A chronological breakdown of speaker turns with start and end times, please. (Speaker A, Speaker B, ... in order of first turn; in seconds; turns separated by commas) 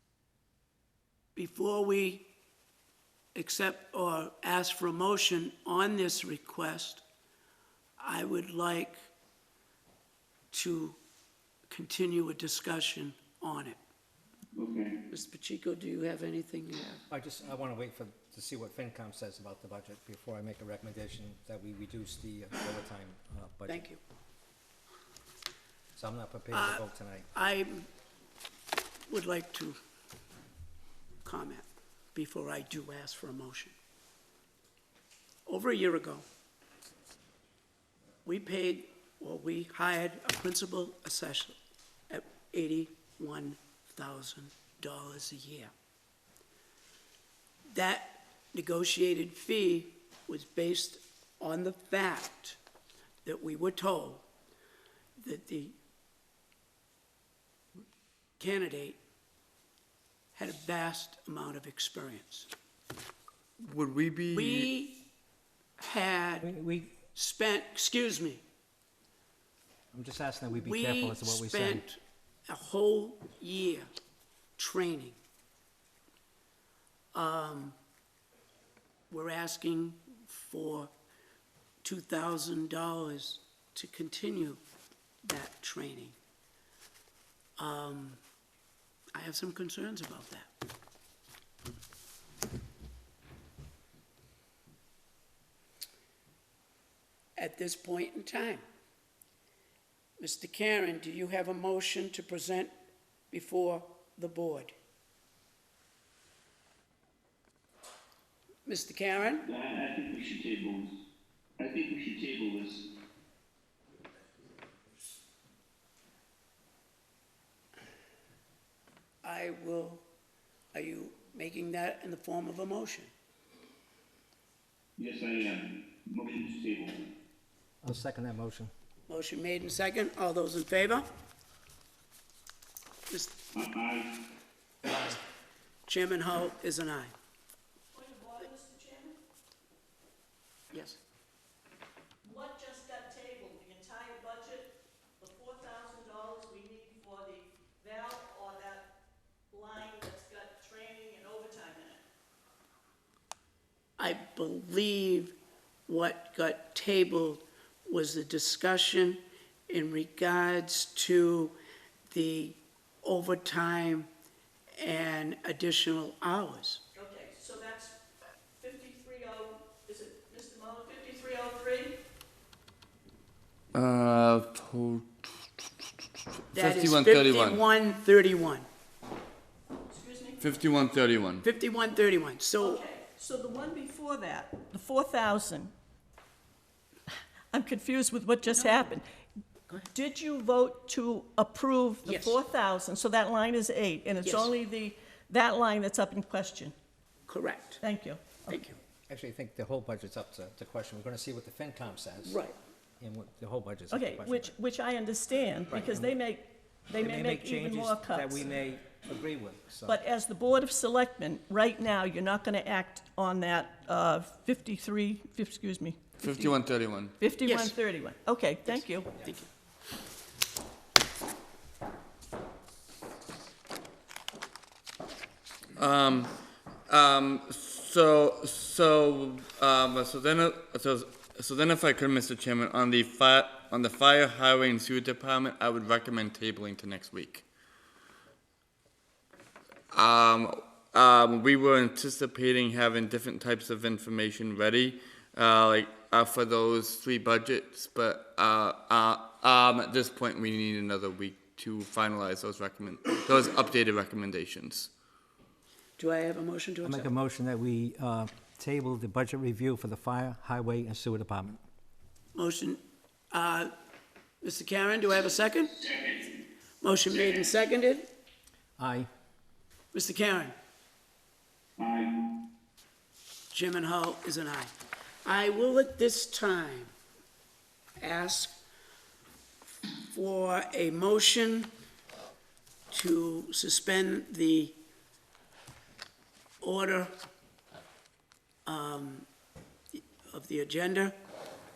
Speaker A: 1.4-2.2, Speaker A: 3.3-7.0, Speaker A: 8.0-8.9, Speaker A: 10.5-11.0, Speaker A: 11.7-13.8, Speaker B: 14.6-14.9, Speaker A: 15.1-17.0, Speaker C: 17.1-23.8, Speaker A: 23.7-24.0, Speaker C: 26.0-27.3, Speaker A: 26.5-27.9, Speaker A: 29.1-29.8, Speaker A: 31.2-33.7, Speaker A: 35.5-36.2, Speaker A: 38.2-41.6, Speaker A: 42.1-45.7, Speaker A: 47.6-52.6, Speaker A: 53.2-54.2, Speaker A: 55.2-55.7, Speaker A: 58.4-59.0, Speaker A: 60.3-62.5, Speaker D: 63.6-64.7, Speaker A: 64.3-65.0, Speaker A: 65.8-66.5, Speaker C: 66.4-67.0, Speaker A: 67.1-68.4, Speaker C: 69.9-71.8, Speaker A: 70.5-73.9, Speaker A: 74.6-75.2, Speaker A: 77.1-77.8, Speaker A: 79.1-80.9, Speaker A: 81.8-84.6, Speaker A: 85.2-86.2, Speaker A: 87.6-88.2, Speaker A: 89.1-90.5, Speaker A: 97.3-98.6, Speaker A: 100.2-102.7, Speaker A: 103.3-104.7, Speaker A: 108.6-109.5, Speaker B: 109.4-111.0, Speaker B: 111.6-112.8, Speaker A: 119.2-120.0, Speaker A: 120.7-123.1, Speaker B: 125.0-127.0, Speaker C: 127.8-128.7, Speaker A: 129.1-131.1, Speaker A: 133.1-133.4, Speaker B: 133.5-134.1, Speaker A: 135.8-137.1, Speaker E: 137.9-139.2, Speaker A: 140.7-141.0, Speaker E: 142.2-148.9, Speaker E: 149.5-152.0, Speaker A: 154.0-155.3, Speaker A: 155.9-161.6, Speaker A: 162.1-164.1, Speaker A: 164.8-166.8, Speaker E: 166.9-168.0, Speaker E: 168.6-172.0, Speaker D: 173.7-175.4, Speaker D: 176.5-177.6, Speaker A: 176.5-178.7, Speaker E: 179.9-180.4, Speaker D: 180.4-181.4, Speaker A: 181.4-182.8, Speaker E: 182.6-185.7, Speaker E: 187.5-189.0, Speaker A: 188.5-188.9, Speaker E: 189.9-196.7, Speaker A: 192.0-192.4, Speaker A: 194.2-194.5, Speaker A: 197.3-197.8, Speaker E: 197.8-198.6, Speaker A: 198.5-198.8, Speaker C: 199.1-202.4, Speaker A: 202.2-202.6, Speaker C: 203.0-204.5, Speaker E: 203.9-208.5, Speaker C: 205.7-206.2, Speaker C: 207.0-210.0, Speaker E: 209.9-216.0, Speaker D: 216.2-217.2, Speaker E: 217.2-219.1, Speaker A: 217.4-217.8, Speaker A: 218.7-219.5, Speaker D: 225.8-226.3, Speaker D: 226.9-237.4, Speaker D: 239.9-254.9, Speaker A: 256.0-257.1, Speaker C: 256.8-261.6, Speaker A: 262.3-263.7, Speaker A: 264.4-265.8, Speaker B: 265.8-266.3, Speaker A: 266.8-268.1, Speaker B: 267.1-267.5, Speaker C: 268.8-269.1, Speaker A: 269.9-270.5, Speaker B: 271.8-272.2, Speaker A: 273.5-274.7, Speaker A: 275.2-276.9, Speaker A: 278.0-278.6, Speaker A: 279.9-281.7, Speaker A: 282.9-284.8, Speaker A: 286.6-287.1, Speaker A: 288.6-289.3, Speaker A: 289.9-291.1